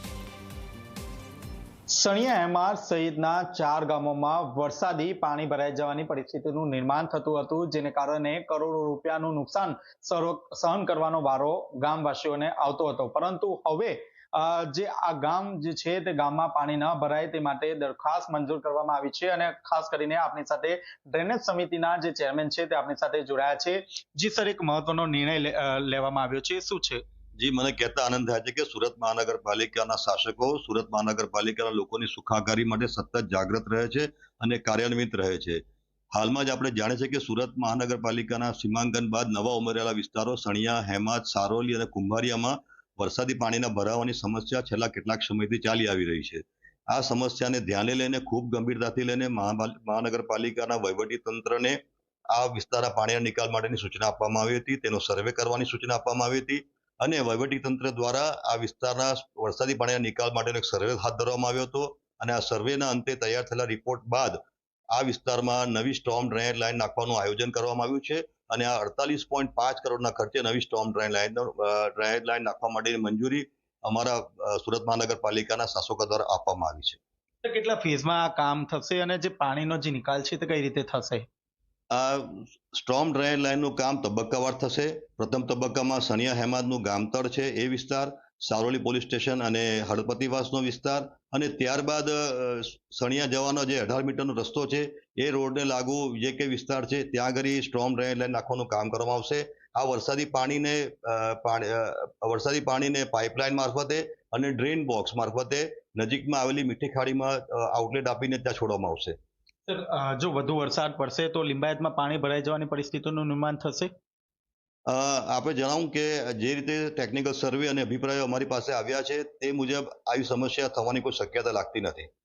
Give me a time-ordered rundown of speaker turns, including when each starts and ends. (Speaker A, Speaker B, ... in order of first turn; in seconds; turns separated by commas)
Speaker A: 1.9-27.0, Speaker B: 27.4-35.6, Speaker B: 36.1-51.8, Speaker B: 52.3-64.4, Speaker B: 64.9-77.0, Speaker A: 77.4-81.3, Speaker B: 81.9-109.2, Speaker A: 109.7-113.9, Speaker B: 114.9-122.1